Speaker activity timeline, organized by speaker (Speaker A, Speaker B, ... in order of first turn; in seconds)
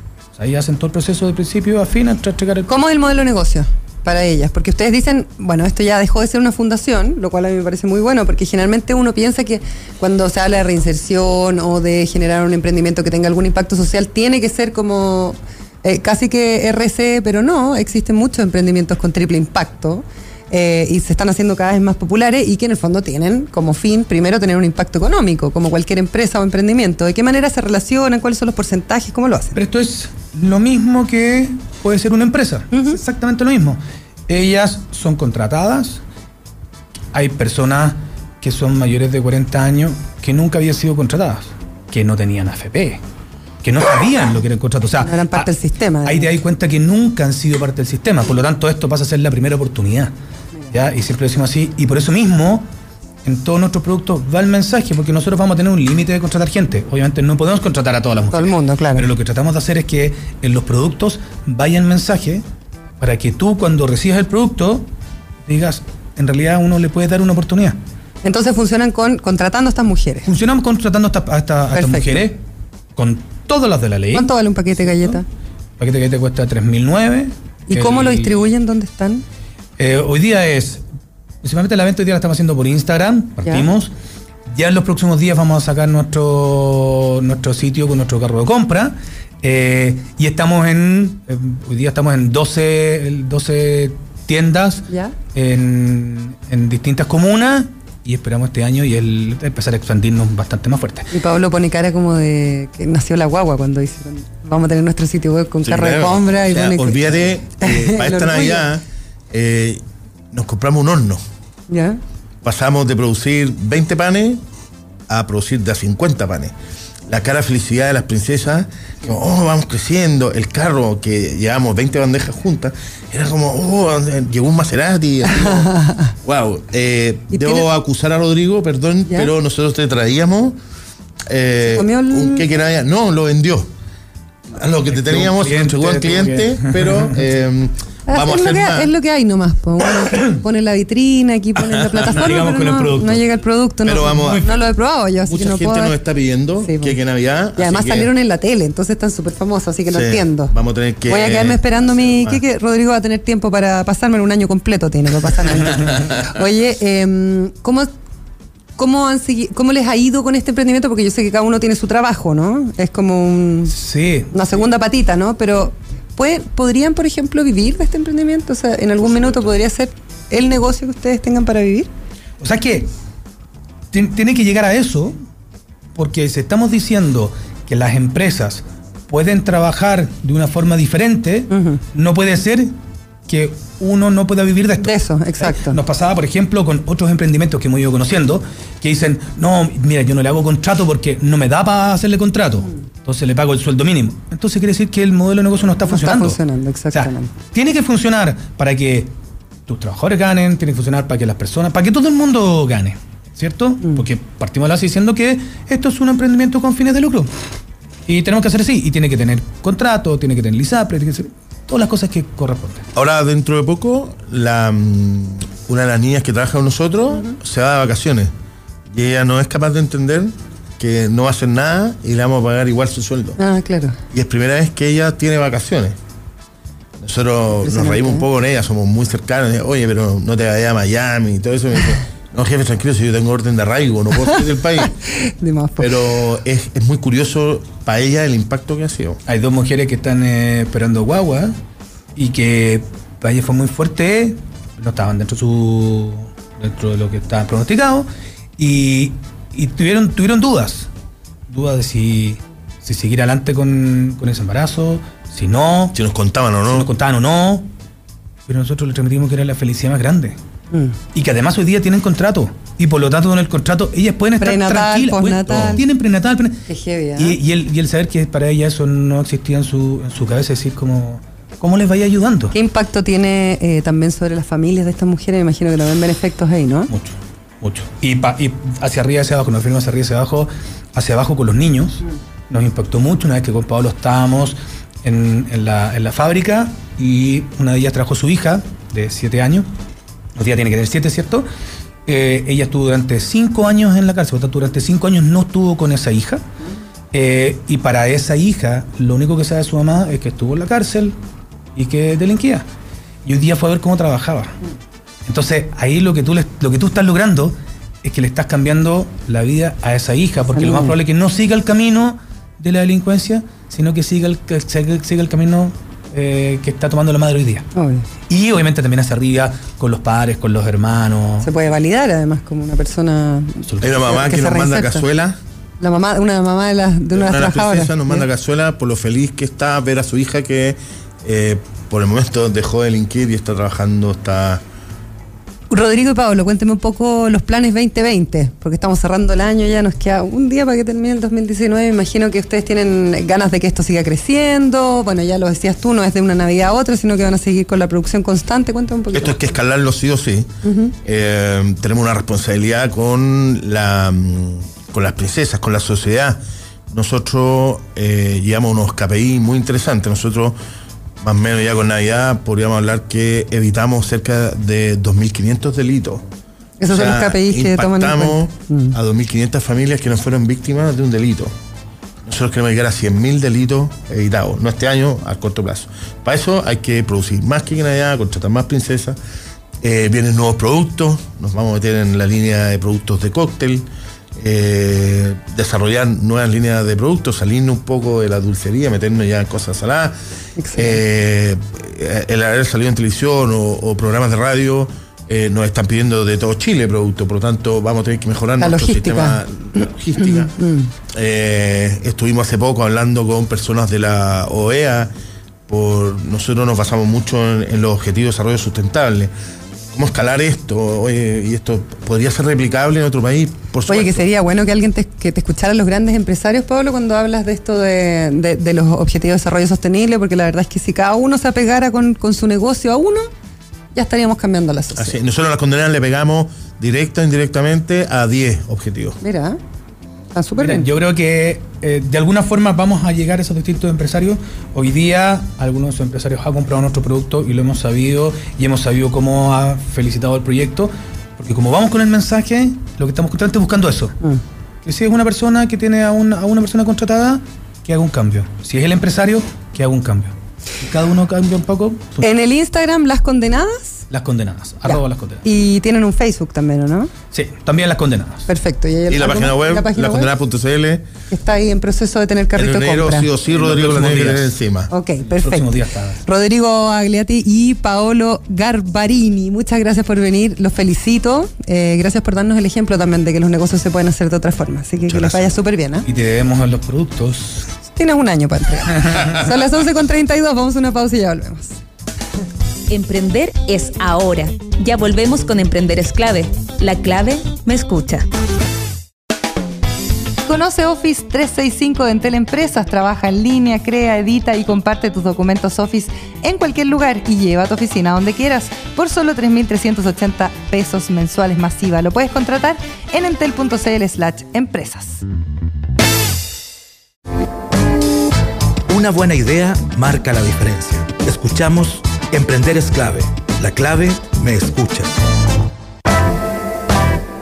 Speaker A: 0.4-2.7, 29.6-36.0, 37.1-43.0, 43.6-45.5, 46.0-50.1, 50.7-52.7, 53.2-62.4, 63.0-64.9, 65.5-67.8, 70.3-72.4, 73.0-75.2, 75.8-78.5, 79.8-80.8, 81.4-83.9, 84.5-101.1, 134.9-137.2, 142.1-143.2, 163.7-164.3, 172.4-172.9, 173.9-175.2, 175.9-182.7, 183.3-196.4, 196.9-199.1, 199.7-207.3, 208.1-212.9, 239.3-241.6, 242.2-248.1, 248.6-250.9, 251.5-256.0, 256.7-257.7, 258.5-260.4, 261.1-266.6, 267.2-272.6, 276.9-289.7, 290.4-291.5, 292.1-296.4, 297.1-301.2, 301.8-302.6, 303.2-304.6, 305.3-317.7, 318.3-321.5, 323.7-324.0, 430.6-444.2, 444.9-452.3, 454.1-455.4, 457.3-458.5, 463.5-464.6, 465.2-466.2, 476.1-477.7
Speaker B: 2.7-29.6, 32.7-33.0, 45.0-46.3, 58.3-59.1, 68.2-70.3, 71.7-72.2, 74.1-75.2, 77.7-79.2, 101.1-108.7, 111.7-112.0, 125.3-126.1, 127.3-127.7, 131.7-132.4, 138.1-145.9, 146.6-147.0, 147.6-150.5, 151.1-157.9, 158.8-163.7, 164.3-171.9, 181.5-181.8, 184.8-185.8, 195.9-197.3, 223.4-224.0, 227.6-228.3, 234.9-235.9, 264.4-265.8, 266.7-267.4, 272.5-276.9, 310.6-310.9, 317.8-318.1, 321.4-325.1, 325.8-328.2, 335.7-349.4, 350.6-350.9, 366.8-368.9, 390.6-391.0, 398.6-400.9, 413.9-423.3, 423.9-425.2, 429.2-429.6, 430.4-430.9, 452.2-454.0, 454.9-457.1, 458.5-460.3, 461.3-463.3, 464.9-465.7, 466.2-476.1, 477.9-481.8, 490.5-505.2
Speaker C: 105.6-111.2, 112.4-114.4, 115.1-116.5, 117.1-130.6, 131.3-133.7, 134.5-138.9, 141.7-142.1, 143.8-144.4, 145.3-148.1, 149.9-152.4, 212.9-218.3, 218.9-223.4, 224.1-226.0, 227.0-234.9, 235.8-239.2, 255.9-256.9, 265.5-265.8, 323.8-325.4, 327.1-334.6, 349.1-350.5, 351.0-356.4, 356.9-360.6, 361.2-366.2, 366.9-371.5, 372.2-379.2, 379.8-390.1, 390.8-400.5, 401.1-405.1, 405.7-409.3, 409.9-414.2, 425.0-429.2, 459.1-461.1, 462.6-464.9, 475.1-475.4
Speaker D: 482.9-488.2
Speaker E: 508.9-515.2